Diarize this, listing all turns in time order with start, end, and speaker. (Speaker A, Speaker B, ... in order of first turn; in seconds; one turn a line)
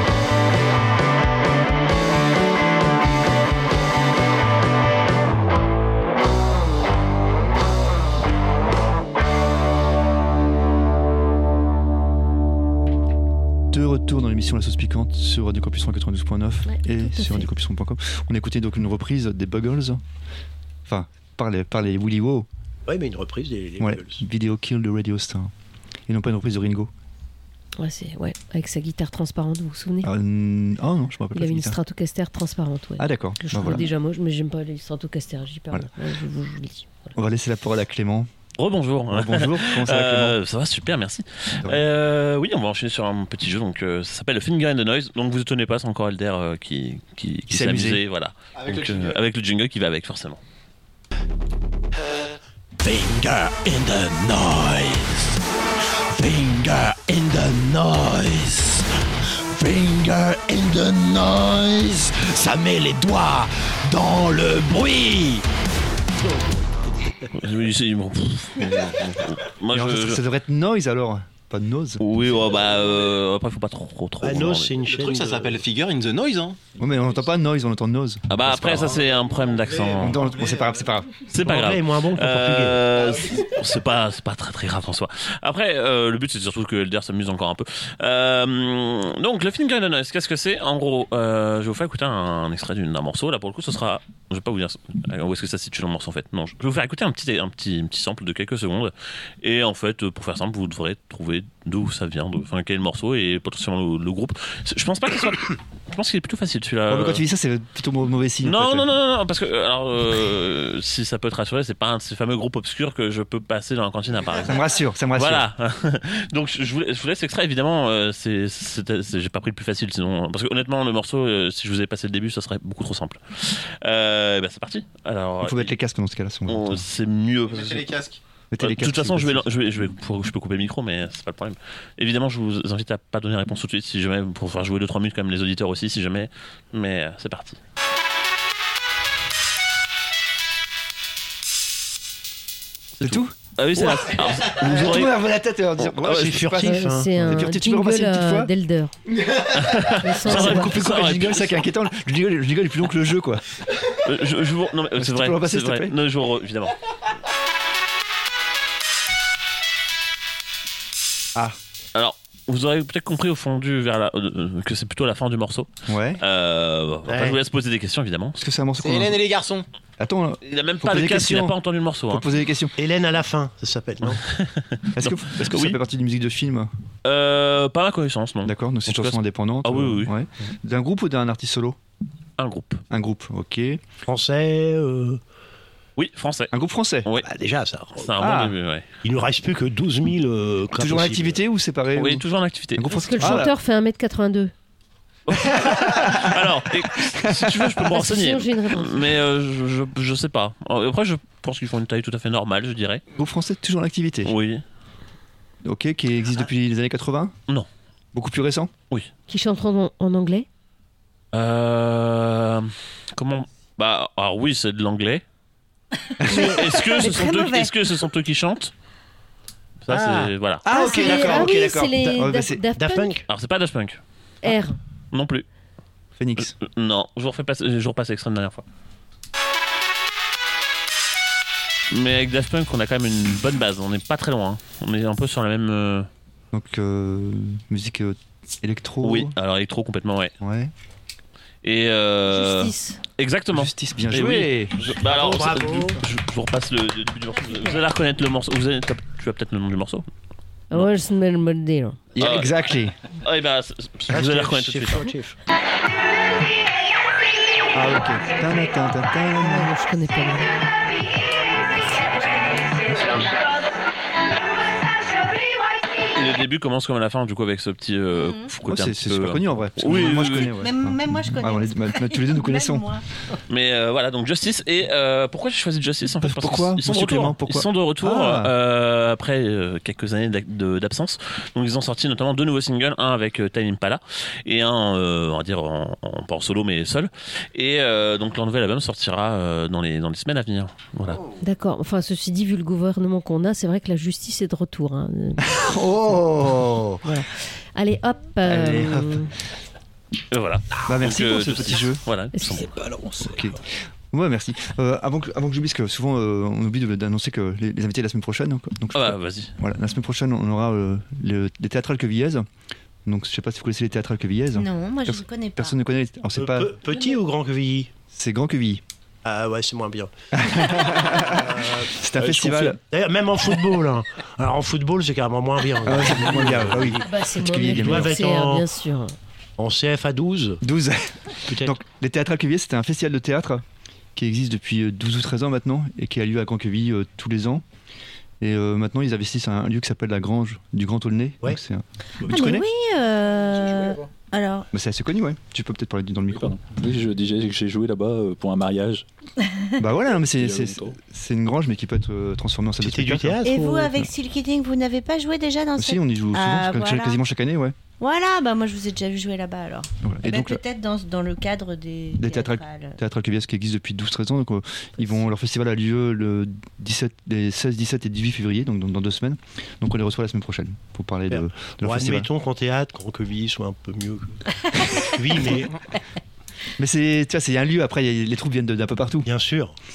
Speaker A: 13.7-20.0
Speaker B: 16.7-17.5
Speaker A: 20.9-22.5
Speaker C: 22.9-24.2
Speaker A: 23.8-25.5
Speaker A: 26.1-26.9
Speaker B: 27.8-30.1
Speaker A: 30.0-31.8
Speaker B: 31.3-37.1
Speaker A: 33.0-33.9
Speaker A: 37.1-38.3
Speaker D: 38.6-50.4
Speaker A: 39.1-40.4
Speaker A: 47.5-48.0
Speaker E: 48.5-49.2
Speaker F: 52.0-52.3
Speaker F: 52.8-55.2
Speaker F: 56.1-58.8
Speaker F: 59.5-65.4
Speaker C: 66.2-66.6
Speaker D: 67.3-70.2
Speaker A: 69.7-72.0
Speaker D: 72.0-74.7
Speaker C: 74.2-75.6
Speaker E: 74.9-76.7
Speaker A: 76.8-79.0
Speaker D: 78.3-80.3
Speaker E: 78.7-80.7
Speaker A: 79.9-81.2
Speaker D: 81.2-107.2
Speaker C: 81.4-82.8
Speaker A: 106.9-108.9
Speaker D: 108.4-125.7
Speaker A: 114.4-115.5
Speaker A: 125.4-126.8
Speaker D: 126.5-128.0
Speaker E: 127.5-128.2
Speaker A: 128.5-129.5
Speaker D: 128.6-137.6
Speaker D: 143.0-145.2
Speaker A: 143.0-148.5
Speaker D: 145.8-146.3
Speaker C: 146.0-147.2
Speaker B: 146.6-148.9
Speaker D: 149.5-151.5
Speaker B: 150.0-150.8
Speaker A: 150.1-153.4
Speaker D: 154.0-156.8
Speaker A: 154.9-155.9
Speaker D: 161.9-168.4
Speaker A: 165.9-166.2
Speaker C: 167.1-167.4
Speaker A: 168.3-169.3
Speaker E: 168.8-169.6
Speaker A: 170.0-171.6
Speaker D: 170.4-172.3
Speaker A: 172.1-172.7
Speaker C: 172.8-174.2
Speaker D: 174.1-175.8
Speaker A: 174.9-176.7
Speaker D: 177.0-180.1
Speaker A: 178.4-181.8
Speaker D: 182.4-182.8
Speaker A: 182.9-183.8
Speaker C: 184.1-185.2
Speaker D: 186.0-186.5
Speaker A: 186.5-187.1
Speaker C: 187.1-188.3
Speaker D: 188.0-188.8
Speaker A: 188.2-188.6
Speaker C: 189.0-191.4
Speaker A: 190.7-193.5
Speaker D: 191.9-193.5
Speaker B: 192.9-194.5
Speaker D: 195.3-203.0
Speaker A: 195.3-197.8
Speaker B: 197.9-199.1
Speaker A: 203.2-204.3
Speaker D: 204.2-204.6
Speaker A: 205.6-207.3
Speaker A: 208.1-208.7
Speaker B: 209.3-210.5
Speaker D: 211.3-215.2
Speaker A: 216.2-216.6
Speaker G: 216.2-217.7
Speaker D: 216.3-218.7
Speaker D: 219.8-220.7
Speaker C: 219.9-220.3
Speaker A: 220.6-222.6
Speaker B: 220.7-223.2
Speaker C: 222.8-223.2
Speaker D: 223.3-224.0
Speaker B: 224.4-224.8
Speaker D: 225.1-225.4
Speaker A: 226.2-226.5
Speaker D: 226.4-228.6
Speaker D: 231.9-236.1
Speaker A: 236.5-239.3
Speaker D: 239.0-240.3
Speaker A: 240.4-240.7
Speaker D: 241.6-250.1
Speaker B: 242.3-243.0
Speaker A: 243.5-244.8
Speaker C: 245.0-246.0
Speaker B: 250.7-252.0
Speaker A: 252.1-253.0
Speaker D: 252.2-252.6
Speaker D: 253.1-255.1
Speaker C: 254.1-255.3
Speaker A: 257.7-259.7
Speaker B: 259.4-260.6
Speaker G: 262.2-263.2
Speaker A: 262.9-263.2
Speaker D: 266.1-270.5
Speaker G: 268.2-268.5
Speaker A: 268.6-272.9
Speaker G: 270.5-273.0
Speaker D: 273.5-291.2
Speaker A: 276.2-278.5
Speaker B: 291.4-295.4
Speaker A: 295.4-297.0
Speaker B: 297.0-299.3
Speaker A: 298.4-299.3
Speaker D: 300.3-302.7
Speaker A: 300.8-302.0
Speaker B: 302.3-302.7
Speaker H: 303.0-303.4
Speaker A: 303.2-312.4
Speaker D: 308.9-309.5
Speaker A: 313.1-316.7
Speaker G: 314.5-315.7
Speaker C: 316.4-317.9
Speaker A: 318.1-318.8
Speaker C: 319.2-320.1
Speaker A: 320.3-322.8
Speaker C: 320.7-328.7
Speaker H: 322.3-322.7
Speaker A: 325.8-328.1
Speaker B: 327.0-329.1
Speaker C: 329.6-330.6
Speaker A: 330.6-333.6
Speaker C: 331.5-331.8
Speaker A: 334.1-337.6
Speaker A: 338.4-342.6
Speaker C: 342.2-342.6
Speaker G: 342.3-344.7
Speaker H: 343.6-344.0
Speaker A: 344.7-346.6
Speaker H: 346.3-349.1
Speaker A: 349.8-353.4
Speaker H: 350.2-351.0
Speaker C: 352.8-354.0
Speaker G: 353.4-357.2
Speaker A: 355.8-357.8
Speaker G: 358.0-363.0
Speaker A: 360.0-360.6
Speaker A: 362.2-372.3
Speaker C: 371.3-375.8
Speaker A: 376.8-379.3
Speaker C: 379.2-379.7